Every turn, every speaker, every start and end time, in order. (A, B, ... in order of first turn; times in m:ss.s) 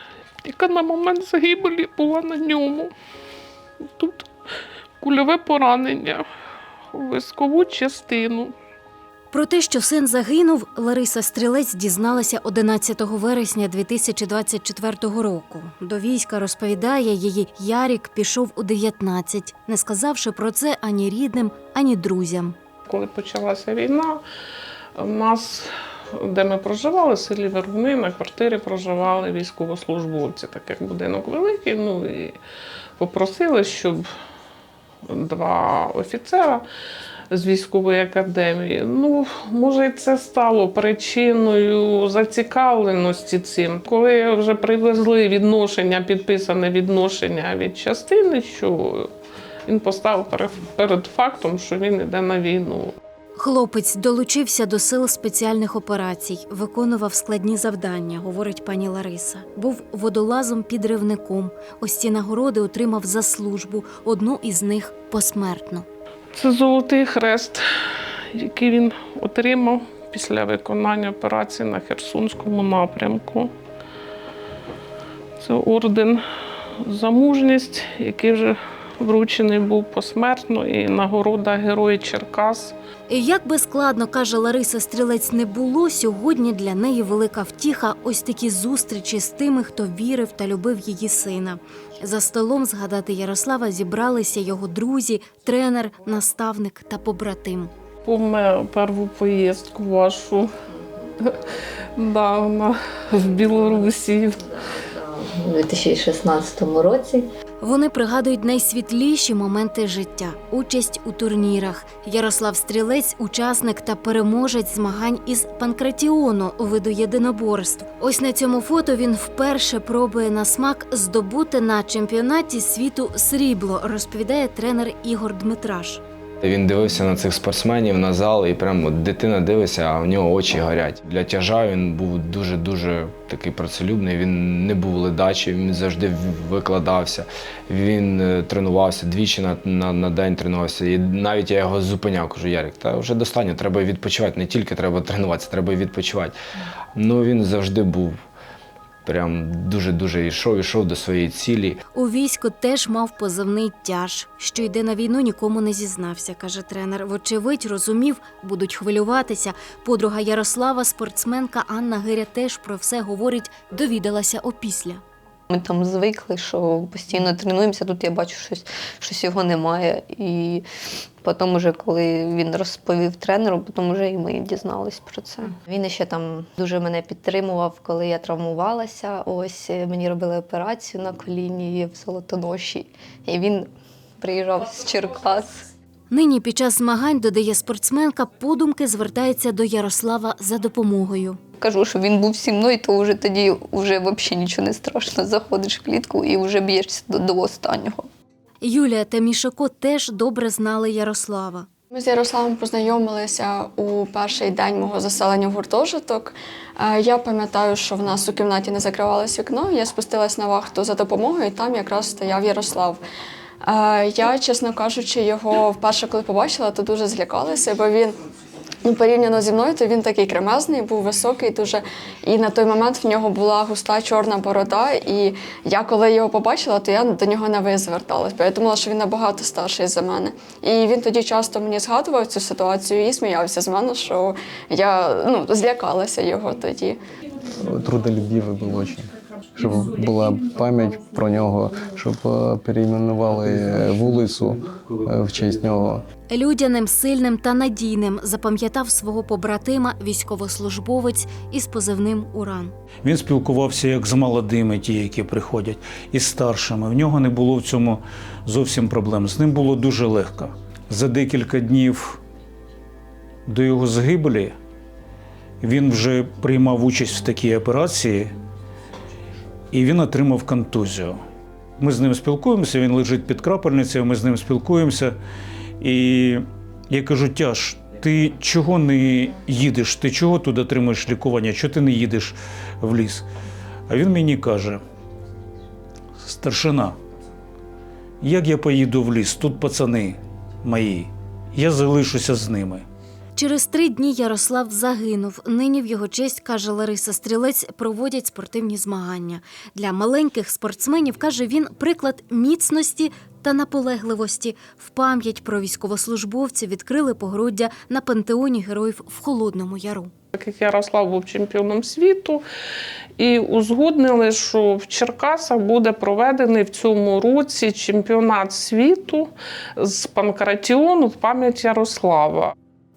0:00.4-0:02.9 A
0:04.0-0:04.2 A
0:05.0-0:06.2 A
0:06.9-0:08.5 A
0:09.3-0:22.6 B
0:22.8-0:24.2 A
0:25.0-0:32.4 A
0:33.0-0:34.1 A
0:35.0-0:36.6 A
0:37.3-0:49.1 A
0:49.6-0:52.9 A
0:53.4-1:05.8 B
1:06.3-1:07.6 A
1:08.3-1:13.5 A
1:15.4-1:16.2 A
1:16.8-1:22.8 A
1:23.1-1:37.7 B
1:38.0-1:40.5 A
1:42.0-1:44.4 A
1:44.6-1:47.3 C
1:47.6-2:06.0 B
2:06.4-2:26.3 D
2:27.0-2:28.2 D
2:29.0-2:31.8 D
2:31.9-2:45.0 B
2:45.5-2:50.6 C
2:51.2-3:03.7 C
3:04.2-3:05.6 C
3:06.1-3:11.4 B
3:11.6-3:18.1 C
3:18.6-3:21.6 B
3:21.9-3:33.0 E
3:33.6-3:38.1 E
3:38.8-3:57.0 E
3:57.6-4:06.0 F
4:06.4-4:12.7 B
4:13.0-4:22.2 G
4:23.5-4:24.5 G
4:25.6-4:28.3 G
4:29.7-4:31.2 G
4:31.8-4:35.2 G
4:35.8-4:43.2 G
4:43.9-4:44.8 G
4:46.2-4:46.9 G
4:48.2-4:52.8 G
4:53.4-5:10.1 B
5:10.3-5:12.4 A
5:13.2-5:22.5 A